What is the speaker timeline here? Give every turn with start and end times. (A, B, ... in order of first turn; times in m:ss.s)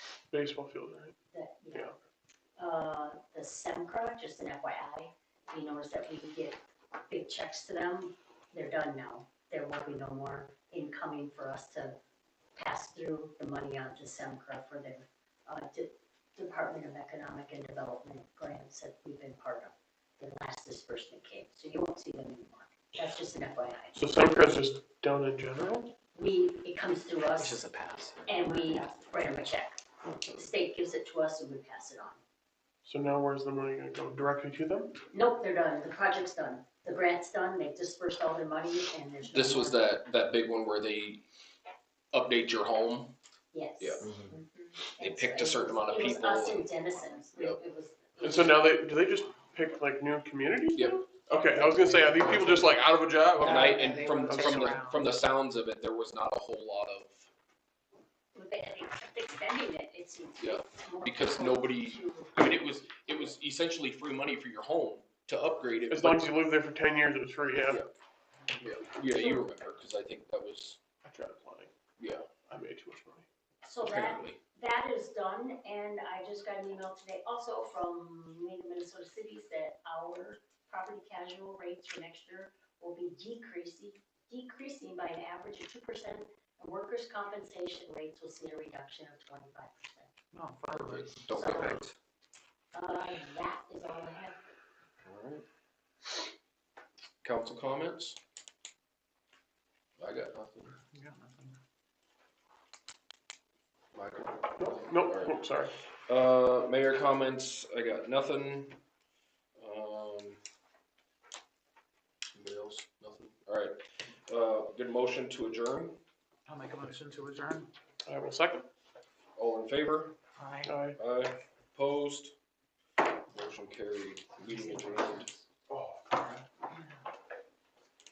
0:00.3-0:01.2 A
0:01.3-0:02.0 B
0:02.6-0:12.0 B
0:12.6-0:24.0 B
0:23.9-0:25.9 A
0:26.1-0:27.6 B
0:27.4-0:28.9 C
0:28.3-0:32.2 B
0:30.0-0:30.4 A
0:32.8-0:35.0 A
0:35.1-0:39.8 B
0:39.3-0:41.2 D
0:42.1-0:43.1 D
0:43.5-0:44.1 B
0:43.8-0:44.1 D
0:45.0-0:48.8 B
0:45.0-0:46.7 D
0:46.8-0:47.3 C
0:48.2-0:54.7 A
0:50.8-0:51.0 D
0:53.4-0:57.3 D
0:53.4-0:55.1 C
0:58.4-1:03.0 B
1:00.4-1:06.3 D
1:05.9-1:07.8 A
1:08.6-1:10.8 D
1:09.1-1:09.4 B
1:11.0-1:11.7 A
1:12.0-1:12.3 D
1:12.5-1:13.3 A
1:13.6-1:30.1 B
1:13.8-1:14.4 D
1:30.3-1:31.6 C
1:30.7-1:31.9 D
1:31.3-1:31.8 B
1:32.7-1:34.4 B
1:35.0-1:35.4 D
1:37.2-1:38.2 D
1:40.0-1:40.8 D
1:40.9-1:41.6 C
1:43.9-1:45.4 D
1:44.6-1:45.8 A
1:46.1-1:48.8 D
1:49.6-1:50.4 D
1:52.3-1:56.0 D
1:56.5-1:57.7 C
1:58.0-1:58.7 A
1:59.4-2:00.2 D
2:00.4-2:00.8 C
2:00.6-2:01.0 A
2:01.0-2:02.4 D
2:03.3-2:05.3 D
2:04.5-2:05.2 B